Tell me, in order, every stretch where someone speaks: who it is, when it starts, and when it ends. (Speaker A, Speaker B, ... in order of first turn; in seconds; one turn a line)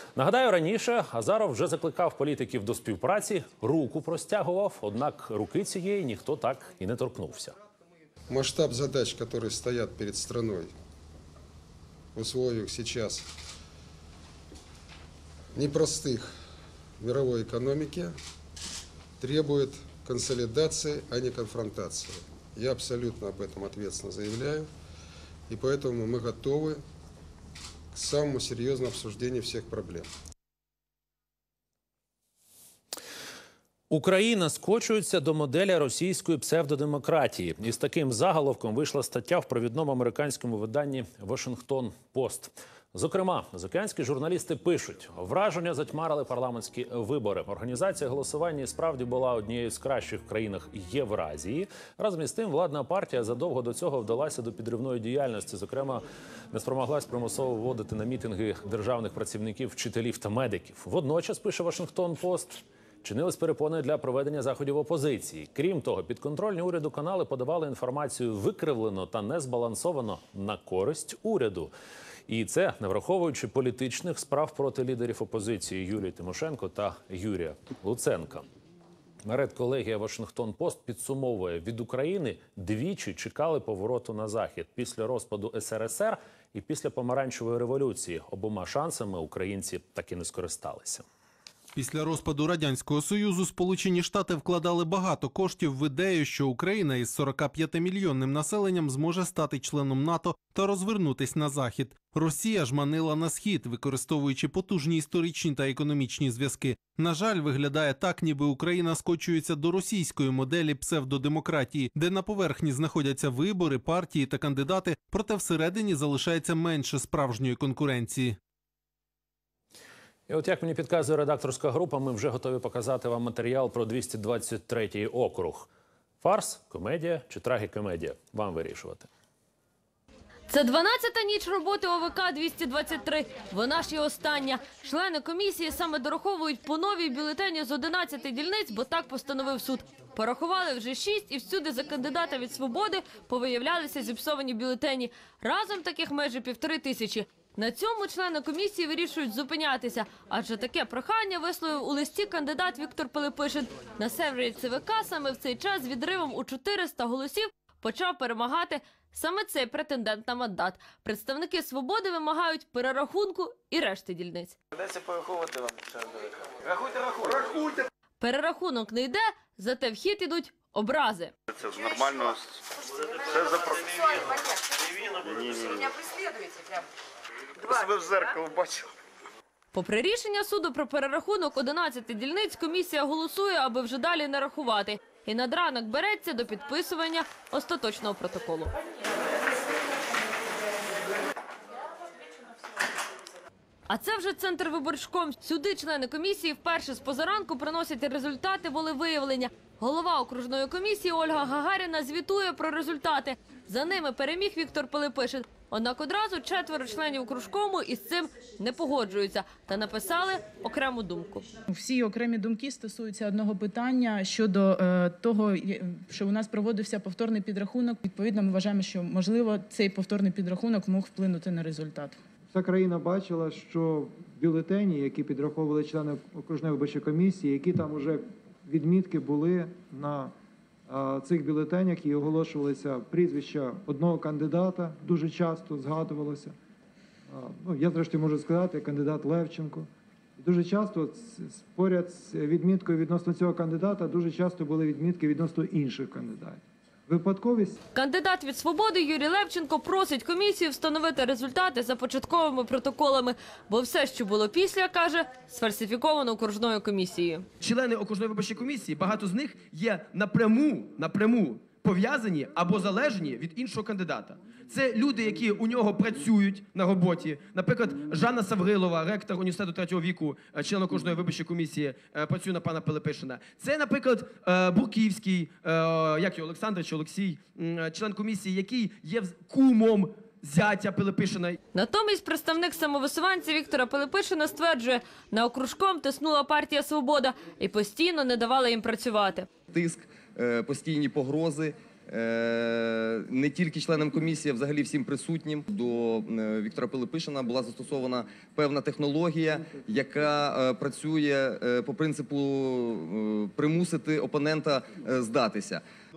Speaker A: 0.2-7.5
Speaker B: 8.3-10.7
Speaker B: 12.2-13.3
Speaker B: 15.6-16.3
Speaker B: 17.0-18.1
Speaker B: 19.2-24.7
Speaker B: 25.5-26.8
Speaker B: 27.9-30.1
Speaker A: 33.9-71.7
Speaker A: 72.3-78.5
Speaker A: 79.2-91.0
Speaker C: 91.8-118.4
Speaker A: 120.3-125.7
Speaker A: 126.2-129.1
Speaker D: 130.5-164.5
Speaker E: 164.7-167.7
Speaker D: 168.2-171.3
Speaker E: 171.5-172.6
Speaker E: 173.1-176.0
Speaker E: 177.6-178.9
Speaker D: 179.7-188.7
Speaker D: 193.9-211.5
Speaker F: 211.7-222.2
Speaker G: 222.5-230.3
Speaker G: 230.9-236.6
Speaker G: 237.3-247.8
Speaker D: 247.9-257.4
Speaker H: 257.6-281.6
Speaker D: 281.7-289.5
Speaker I: 289.7-305.8